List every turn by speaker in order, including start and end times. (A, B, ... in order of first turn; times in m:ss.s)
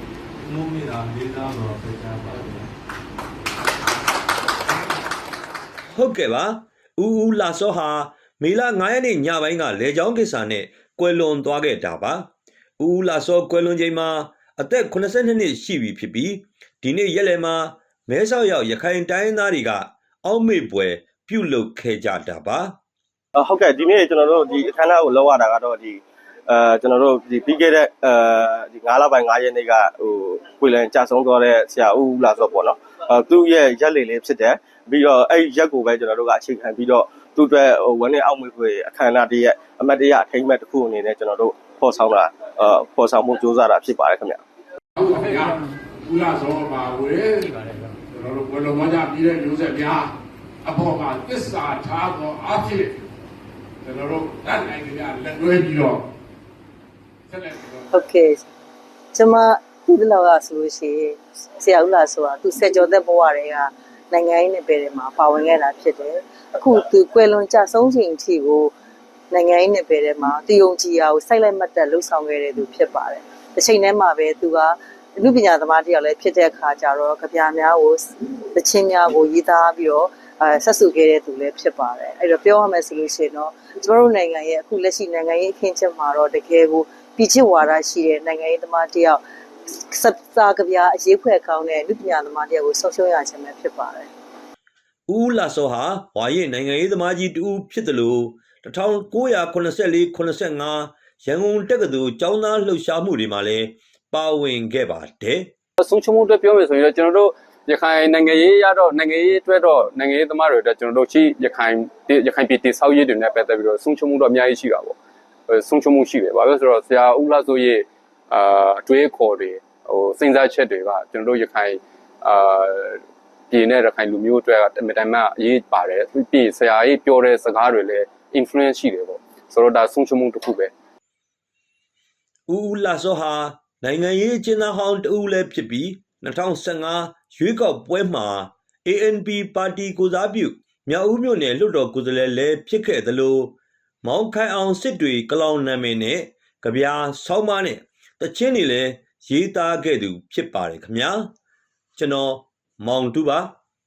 0:00.4-0:02.7 A
0:05.9-0:12.3 B
0:12.8-0:22.7 B
0:23.3-0:44.4 C
0:45.0-0:47.5 D
0:48.1-0:50.1 D
0:50.6-0:53.0 D
0:53.8-0:56.0 D
0:57.3-0:57.9 D
0:57.9-0:58.4 E
0:59.1-1:08.7 E
1:09.3-1:34.1 E
1:35.1-1:45.5 B
1:45.8-1:55.0 F
1:55.5-2:10.7 F
2:12.5-2:31.3 B
2:32.0-2:33.5 B